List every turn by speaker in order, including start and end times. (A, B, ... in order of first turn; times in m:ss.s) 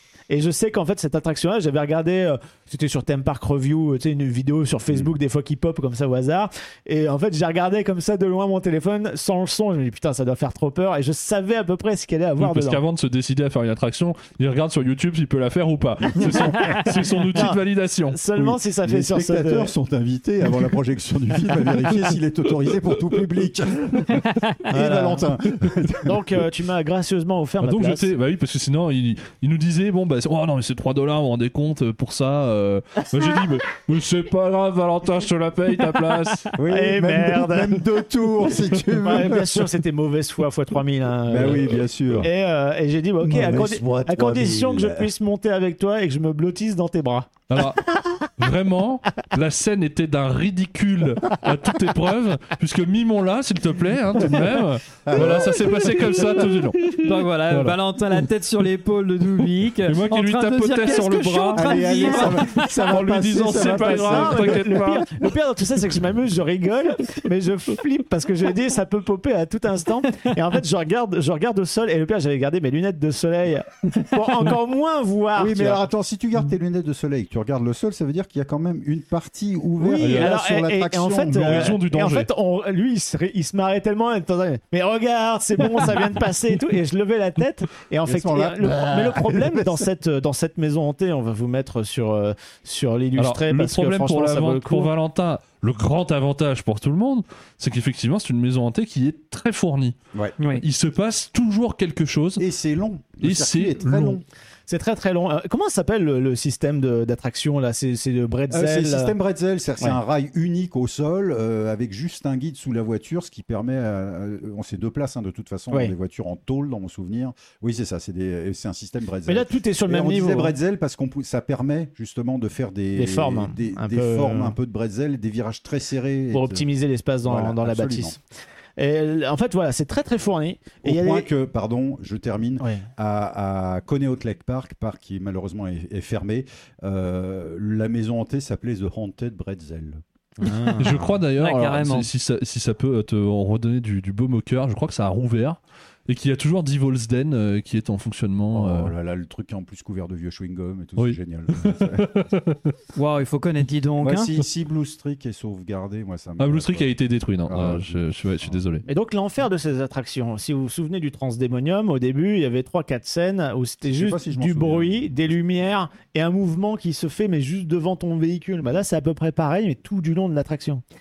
0:00.3-0:12.8 A
0:12.4-0:18.2 B
0:16.2-0:16.8 C
0:17.3-0:19.7 A
0:18.3-0:26.4 C
0:24.7-0:25.3 A
0:26.0-0:28.1 A
0:27.6-0:36.5 B
0:36.6-0:39.7 C
0:36.7-0:37.8 A
0:39.0-0:47.6 A
0:41.3-0:42.3 C
0:43.2-0:45.1 C
0:47.5-0:57.8 B
0:55.0-0:56.6 C
0:57.0-1:02.6 D
0:59.9-1:05.3 B
1:01.5-1:04.8 C
1:03.5-1:15.8 A
1:15.4-1:21.8 C
1:19.8-1:34.9 A
1:20.0-1:20.4 B
1:21.4-1:22.3 B
1:28.0-1:29.9 C
1:33.2-1:40.0 B
1:40.5-1:42.4 B
1:42.4-1:44.2 C
1:43.2-1:44.2 B
1:44.7-1:49.1 A
1:48.5-2:06.7 C
1:59.3-2:00.6 A
2:03.0-2:04.6 A
2:06.3-2:08.2 A
2:07.2-2:08.2 C
2:08.8-2:11.3 A
2:10.8-2:20.0 C
2:12.6-2:12.9 A
2:20.4-2:21.1 A
2:20.8-2:28.9 B
2:20.8-2:21.1 C
2:21.4-2:22.1 D
2:28.5-2:32.1 C
2:31.0-2:32.8 B
2:33.0-2:34.3 D
2:34.0-2:36.9 C
2:36.4-2:38.8 B
2:37.5-2:38.6 C
2:38.9-2:50.8 A
2:43.8-2:45.4 C